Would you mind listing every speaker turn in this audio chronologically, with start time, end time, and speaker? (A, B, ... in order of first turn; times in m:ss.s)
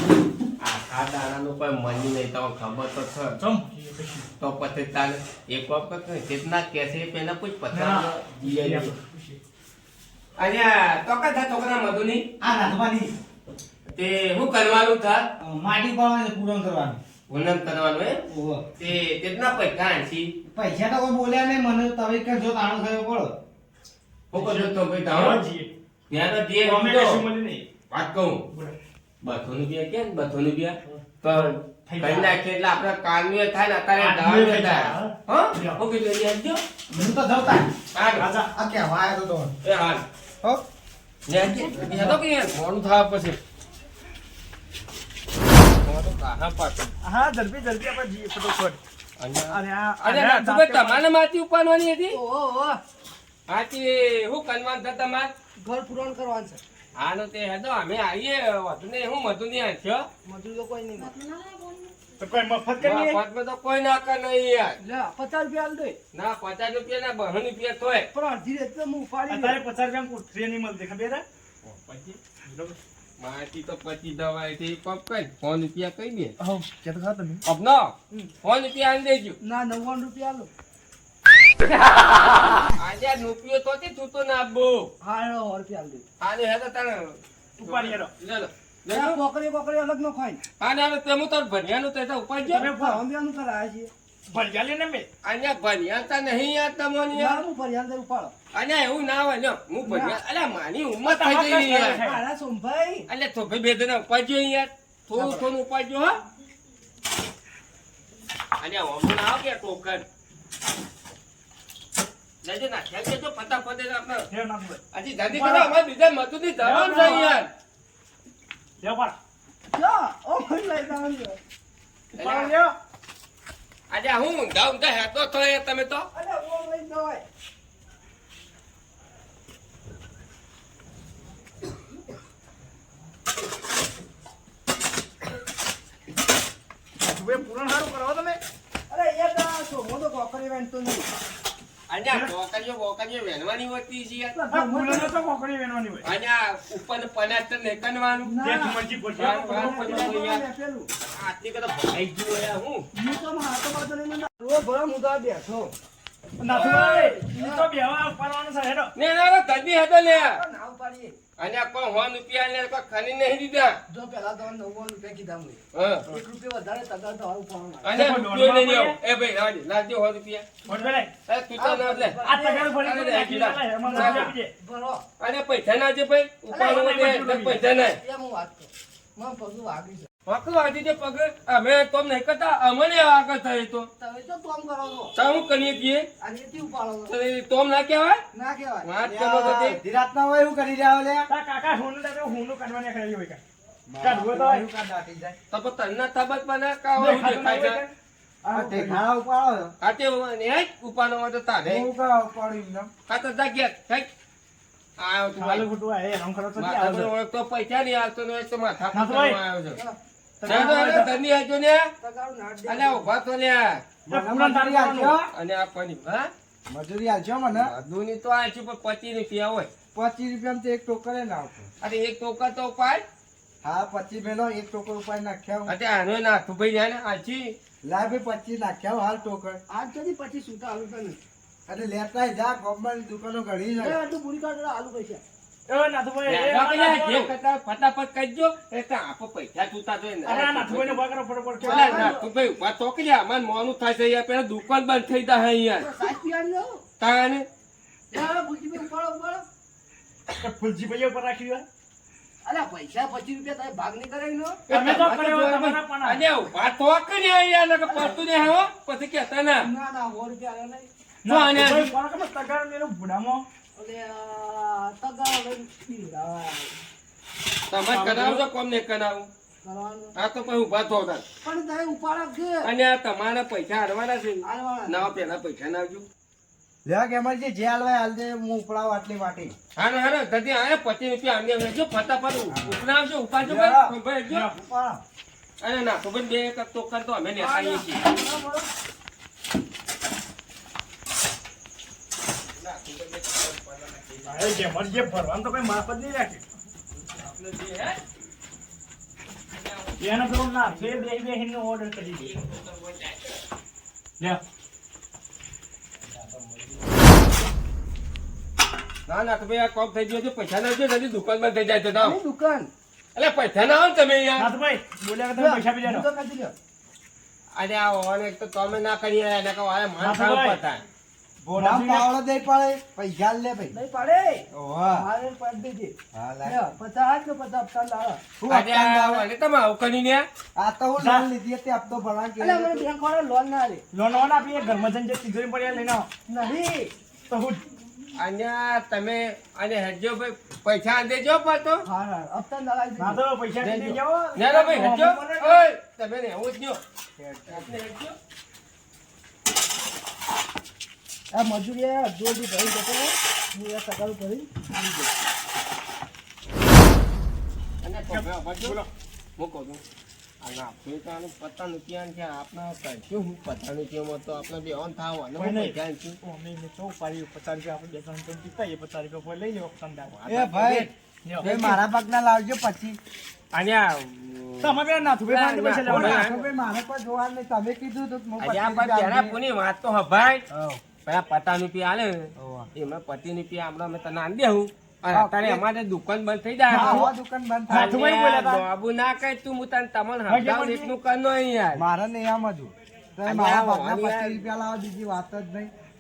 0:00.6-0:03.4 A
0:03.4-0:04.3 B
0:04.4-0:08.9 A
0:07.7-0:09.4 B
0:10.4-0:12.3 A
0:12.4-0:13.1 C
0:13.9-0:15.3 A
0:15.4-0:17.0 C
0:17.3-0:18.2 A
0:18.3-0:18.6 C
0:18.8-0:20.3 A
0:20.6-0:23.3 C
0:24.3-0:25.4 A
0:24.3-0:25.7 B
0:26.1-0:27.2 A
0:26.6-0:27.7 B
0:27.9-0:28.4 A
0:29.2-0:36.6 A
0:30.9-0:32.4 B
0:34.0-0:35.8 B
0:36.9-0:37.7 C
0:37.9-0:38.3 A
0:38.2-0:38.5 B
0:38.5-0:39.5 C
0:39.6-0:40.0 A
0:41.3-0:43.4 A
0:41.6-0:42.1 D
0:45.8-0:46.9 A
0:47.0-0:48.8 B
0:49.2-0:52.2 A
0:49.5-0:51.0 B
0:52.1-0:52.8 D
0:53.5-0:55.3 A
0:55.6-0:56.6 D
0:57.0-1:00.1 A
1:00.2-1:01.1 D
1:02.2-1:03.2 B
1:02.8-1:04.8 A
1:04.8-1:06.0 D
1:06.1-1:08.1 A
1:08.1-1:09.6 D
1:09.3-1:11.2 B
1:11.6-1:12.2 A
1:12.4-1:12.8 B
1:13.2-1:16.3 A
1:16.4-1:17.4 D
1:17.5-1:19.4 A
1:19.4-1:20.5 D
1:22.8-1:24.9 A
1:25.0-1:26.0 D
1:26.2-1:29.2 A
1:27.6-1:28.1 B
1:28.9-1:30.4 D
1:30.6-1:32.7 A
1:32.5-1:33.9 D
1:32.5-1:33.0 B
1:34.3-1:35.1 B
1:35.2-1:37.4 A
1:37.1-1:38.3 D
1:38.5-1:42.0 A
1:39.8-1:40.2 D
1:41.1-1:42.2 B
1:42.0-1:43.1 D
1:43.1-1:46.2 A
1:45.2-1:45.4 D
1:48.6-1:50.0 A
1:52.4-1:54.3 A
1:54.3-1:54.8 B
1:54.9-1:57.5 A
1:55.4-1:55.7 B
1:56.6-1:57.4 B
1:58.8-1:59.2 B
1:59.7-2:01.4 D
2:02.1-2:02.5 A
2:02.2-2:02.8 B
2:03.9-2:06.1 A
2:06.1-2:07.2 D
2:17.0-2:18.4 B
2:18.9-2:21.1 D
2:21.9-2:24.4 A
2:24.3-2:25.2 D
2:24.5-2:26.1 B
2:26.0-2:28.3 A
2:28.2-2:30.9 D
2:28.4-2:30.0 B
2:29.2-2:30.4 A
2:31.2-2:32.9 A
2:33.0-2:35.7 D
2:36.4-2:38.9 B
2:36.5-2:37.6 D
2:39.0-2:40.4 A
2:40.0-2:41.2 D
2:41.4-2:43.8 A
2:43.9-2:48.0 D
2:45.7-2:46.1 A
2:47.8-2:50.6 A
2:47.9-2:49.0 B
2:50.7-2:50.9 D
2:50.7-2:51.1 B
2:51.3-2:52.2 A
2:51.6-2:52.7 D
2:52.2-2:54.5 B
2:52.8-2:54.3 A
2:53.8-2:55.0 D
2:55.2-2:58.0 A
2:56.5-2:56.9 D
2:56.6-2:57.7 B
2:57.9-3:00.1 D
3:00.3-3:03.9 A
3:04.0-3:05.1 D
3:05.2-3:06.1 A
3:06.2-3:07.1 D
3:07.1-3:08.2 A
3:08.3-3:08.9 D
3:08.8-3:09.8 A
3:09.0-3:11.3 C
3:11.3-3:13.4 B
3:13.9-3:15.4 C
3:14.0-3:14.6 B
3:15.5-3:17.8 A
3:17.0-3:17.9 B
3:18.4-3:19.0 B
3:18.5-3:19.8 C
3:19.8-3:21.9 A
3:21.6-3:22.9 C
3:23.1-3:24.1 A
3:25.0-3:25.7 A
3:25.4-3:27.1 B
3:26.6-3:29.8 A
3:28.9-3:29.4 B
3:29.8-3:31.1 D
3:30.4-3:31.0 C
3:30.4-3:31.9 A
3:32.0-3:33.0 D
3:32.7-3:33.8 A
3:34.1-3:35.3 C
3:34.1-3:35.3 B
3:35.3-3:36.3 A
3:36.7-3:37.8 C
3:37.5-3:39.7 A
3:39.9-3:41.7 C
3:41.8-3:43.0 A
3:43.6-3:45.7 C
3:45.7-3:47.6 A
3:47.8-3:49.6 C
3:49.7-3:51.2 D
3:51.7-3:54.0 C
3:53.8-3:55.2 D
3:55.7-3:57.3 B
3:56.3-4:01.0 A
4:00.3-4:02.2 B
4:01.6-4:02.3 D
4:01.6-4:05.9 A
4:05.8-4:06.8 D
4:07.0-4:07.4 A
4:08.1-4:09.4 D
4:10.4-4:11.7 B
4:12.4-4:14.6 D
4:14.7-4:19.7 A
4:14.7-4:16.2 B
4:17.9-4:18.3 D
4:19.6-4:20.9 D
4:21.2-4:23.5 B
4:21.3-4:21.9 A
4:23.8-4:26.8 D
4:27.7-4:29.3 A
4:27.9-4:28.4 B
4:29.6-4:30.2 D
4:30.2-4:31.2 A
4:31.4-4:32.7 D
4:32.6-4:36.1 A
4:34.4-4:35.1 D
4:36.8-4:39.5 C
4:39.8-4:44.5 A
4:42.5-4:42.8 C
4:43.4-4:43.9 C
4:44.3-4:44.6 B
4:44.6-4:45.0 C
4:45.6-4:48.0 A
4:47.4-4:48.7 D
4:52.6-4:54.8 A
4:54.3-4:56.4 B
4:57.0-4:58.0 A
4:59.5-5:01.1 A
5:00.0-5:02.3 B
5:02.0-5:03.4 A
5:09.1-5:12.2 A
5:12.0-5:12.7 D
5:13.2-5:14.5 A
5:14.4-5:16.1 B
5:15.3-5:16.5 D
5:17.6-5:20.8 A
5:20.0-5:20.6 B
5:21.4-5:23.8 C
5:21.5-5:22.1 B
5:23.7-5:28.2 D
5:24.5-5:25.1 C
5:26.1-5:26.6 C
5:28.4-5:29.3 C
5:28.5-5:30.3 A
5:30.6-5:32.8 C
5:31.0-5:31.3 B
5:32.4-5:33.8 D
5:33.9-5:36.1 B
5:36.3-5:36.9 D
5:37.3-5:37.6 B
5:38.2-5:41.9 A
5:41.8-5:43.2 D
5:43.0-5:45.6 B
5:43.6-5:46.8 A
5:47.2-5:47.6 C
5:47.5-5:48.2 A
5:51.3-5:55.1 D
5:57.8-5:58.8 A
5:58.1-5:58.9 B
5:59.4-5:59.8 A
6:00.4-6:06.2 A
6:05.4-6:10.2 B
6:10.1-6:11.8 A
6:10.3-6:10.9 C
6:11.2-6:11.6 B
6:11.4-6:13.0 C
6:13.5-6:16.4 A
6:14.6-6:16.3 B
6:15.8-6:19.4 C
6:18.4-6:20.4 A
6:20.5-6:20.8 C
6:21.0-6:27.1 A
6:22.4-6:22.7 C
6:25.1-6:25.6 C
6:26.7-6:27.1 B
6:26.7-6:27.9 C
6:27.7-6:28.6 B
6:27.7-6:31.8 A
6:30.3-6:30.9 B
6:31.7-6:35.7 C
6:33.2-6:34.4 A